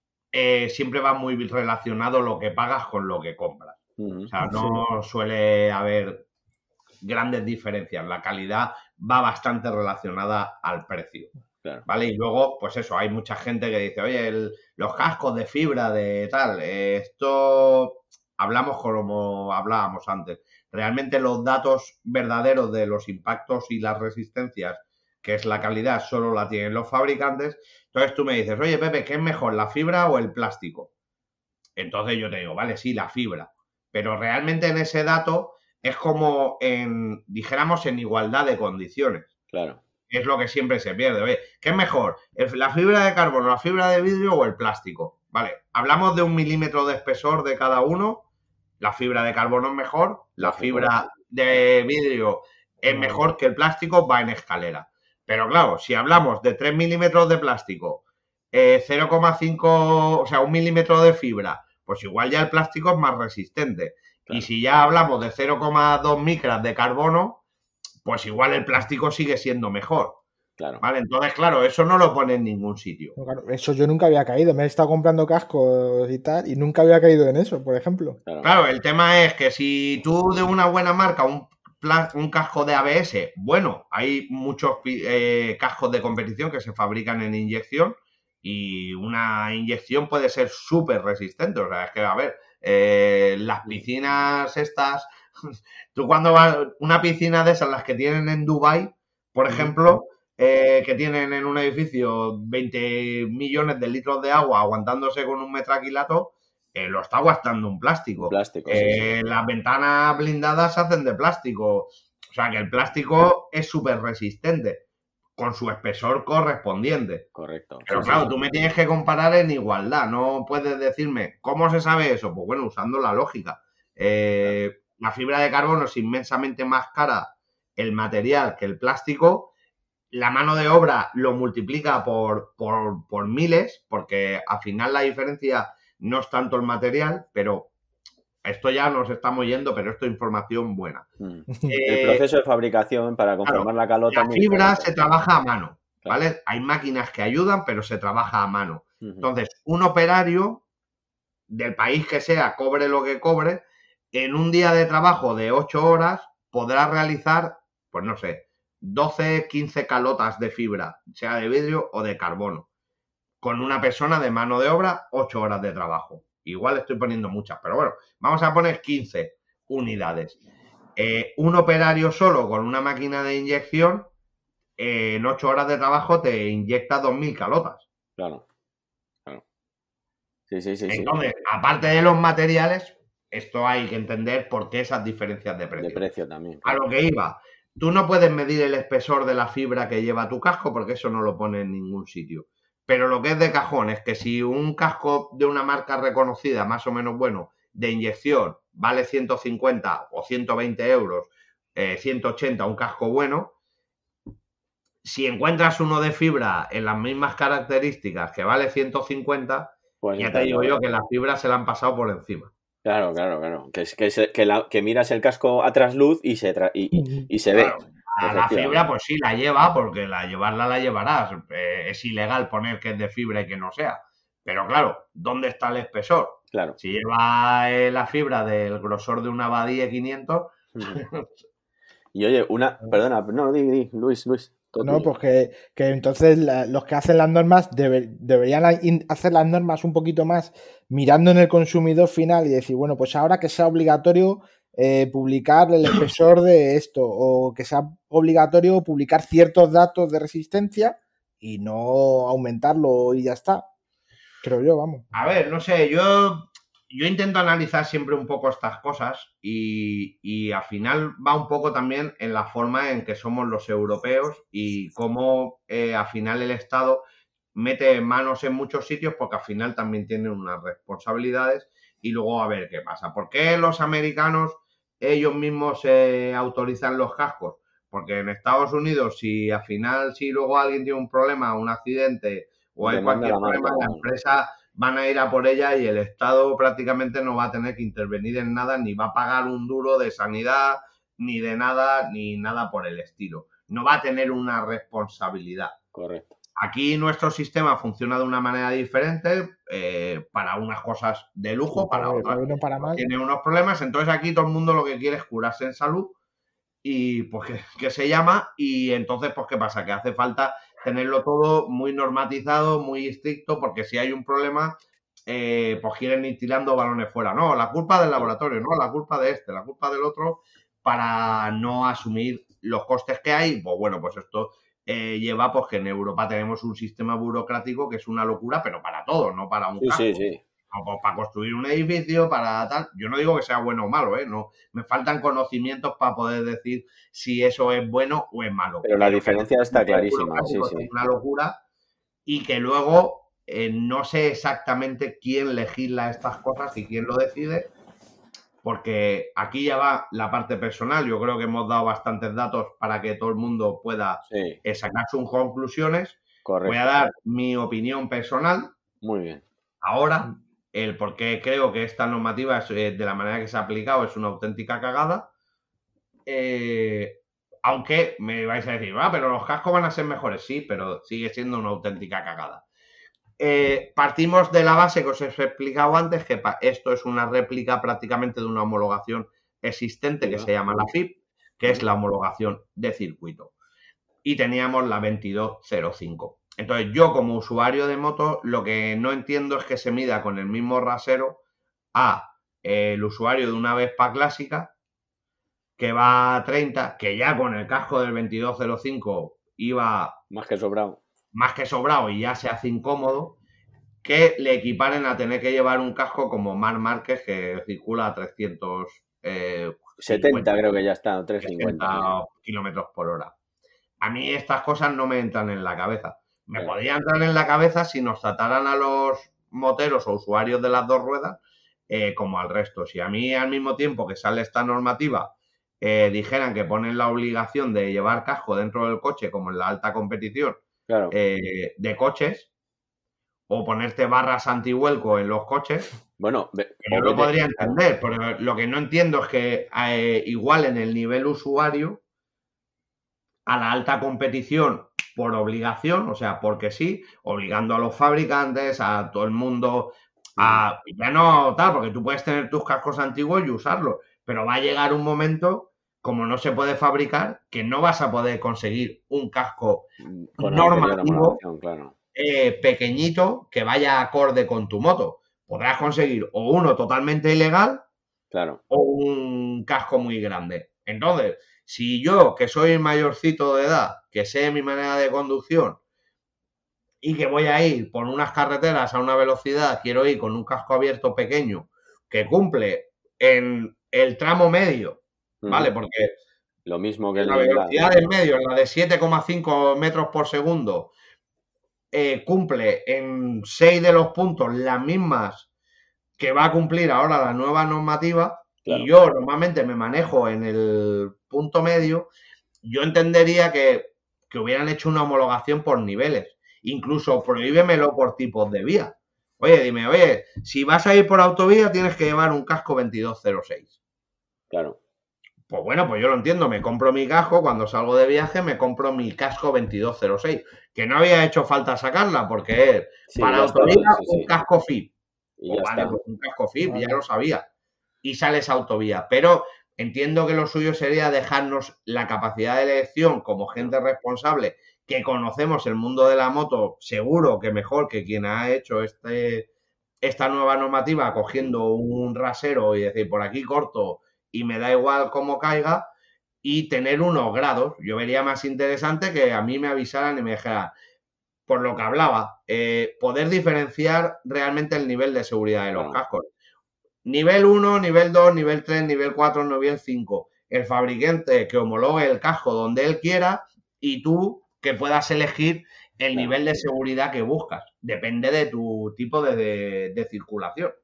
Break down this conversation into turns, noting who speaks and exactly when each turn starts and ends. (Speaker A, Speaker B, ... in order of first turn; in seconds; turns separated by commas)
Speaker A: 0.3-6.2, Speaker B: 4.0-4.3, Speaker A: 7.0-11.3, Speaker A: 11.9-30.9, Speaker A: 31.8-39.3, Speaker B: 39.5-39.8, Speaker A: 40.1-48.2, Speaker A: 48.8-67.4, Speaker B: 50.4-50.9, Speaker A: 68.0-70.2, Speaker A: 70.8-73.1, Speaker C: 73.2-78.2, Speaker B: 78.2-78.5, Speaker A: 78.4-95.1, Speaker A: 95.9-114.8, Speaker B: 108.2-109.2, Speaker A: 115.4-117.3, Speaker B: 117.3-118.3, Speaker A: 117.8-129.5, Speaker A: 130.1-137.7, Speaker A: 138.4-141.1, Speaker B: 141.2-144.9, Speaker A: 141.6-142.2, Speaker A: 143.4-150.6, Speaker A: 151.5-162.7, Speaker A: 163.4-170.4, Speaker A: 170.9-174.1, Speaker A: 174.8-177.8, Speaker B: 178.2-178.4, Speaker B: 180.5-181.1, Speaker A: 180.9-186.0, Speaker B: 185.8-186.8, Speaker A: 186.6-203.5, Speaker A: 205.0-212.5, Speaker B: 210.0-210.8, Speaker B: 212.8-218.8, Speaker C: 217.0-217.3, Speaker A: 217.5-231.3, Speaker B: 226.5-226.8, Speaker B: 230.7-231.0, Speaker B: 232.1-235.1, Speaker C: 234.8-253.7, Speaker C: 254.4-255.0, Speaker A: 255.1-267.0, Speaker A: 267.5-295.8, Speaker B: 282.8-284.0, Speaker B: 295.9-296.4, Speaker A: 296.6-306.1, Speaker C: 301.7-303.1, Speaker A: 306.8-341.6, Speaker B: 329.8-330.4, Speaker B: 338.8-340.9, Speaker A: 342.2-347.7, Speaker A: 348.6-358.7, Speaker B: 354.3-354.6, Speaker B: 356.4-357.0, Speaker B: 359.0-359.4, Speaker A: 359.8-365.3, Speaker A: 366.2-372.6, Speaker A: 373.4-383.5, Speaker B: 380.2-380.9, Speaker A: 384.2-391.4, Speaker A: 391.9-394.7, Speaker A: 395.8-400.2, Speaker B: 400.3-401.0, Speaker A: 401.3-403.4, Speaker A: 404.0-410.6, Speaker B: 410.0-412.1, Speaker A: 411.4-413.3, Speaker A: 414.0-432.5, Speaker B: 430.9-431.1, Speaker A: 433.5-435.9, Speaker B: 436.2-437.7, Speaker A: 436.9-442.0, Speaker A: 443.5-459.9, Speaker B: 450.4-450.6, Speaker B: 460.0-461.9, Speaker A: 460.4-461.4, Speaker A: 462.1-467.8, Speaker B: 468.3-468.6, Speaker A: 468.7-475.8, Speaker A: 477.0-486.1, Speaker B: 485.4-485.7, Speaker B: 486.6-488.1, Speaker A: 487.1-490.9, Speaker A: 491.9-495.5, Speaker A: 496.2-502.1, Speaker B: 498.6-498.9, Speaker A: 502.6-513.7, Speaker B: 514.5-514.8, Speaker A: 515.5-524.9, Speaker B: 523.1-524.3, Speaker B: 525.4-526.0, Speaker A: 525.5-527.4, Speaker C: 526.6-527.0, Speaker A: 528.0-539.5, Speaker A: 540.0-545.9, Speaker A: 546.4-550.7, Speaker A: 551.5-556.3, Speaker A: 557.0-570.8